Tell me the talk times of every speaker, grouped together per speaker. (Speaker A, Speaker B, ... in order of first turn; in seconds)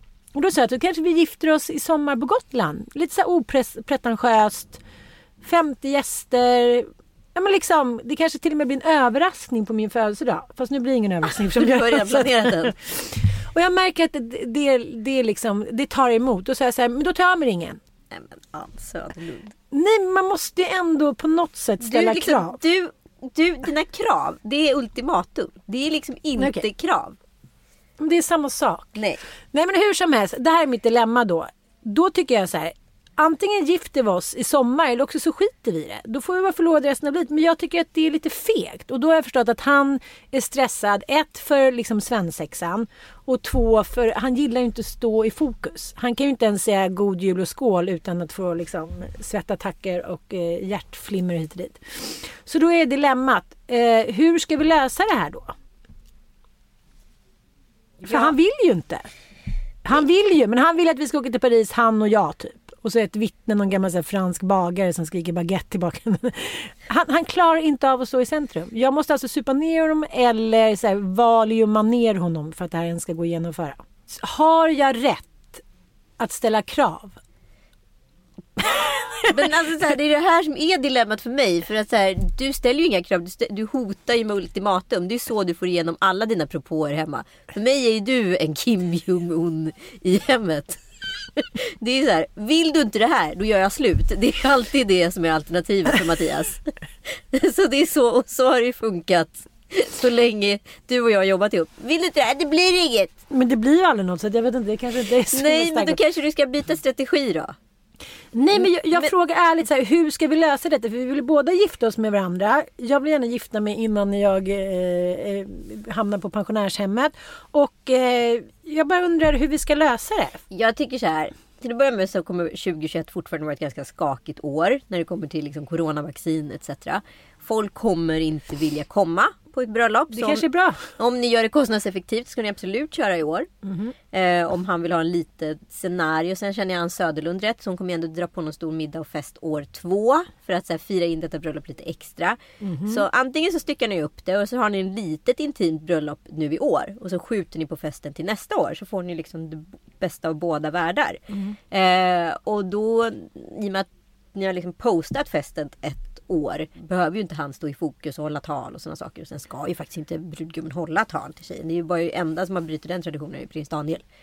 Speaker A: 0.3-4.8, 5.4-17.8, 19.7-22.6, 26.4-26.6, 28.0-28.9, 29.5-55.5, 58.0-59.1, 59.8-75.6, 76.2-77.2, 78.6-79.5, 103.3-106.0, 108.3-120.4, 130.1-130.9, 133.6-133.9, 142.6-143.0, 151.3-151.6
Speaker B: 11.5-12.7, 18.1-19.5, 21.8-27.1, 79.2-90.8, 91.3-103.1, 105.3-107.5, 108.5-109.1, 120.5-133.5, 134.1-164.0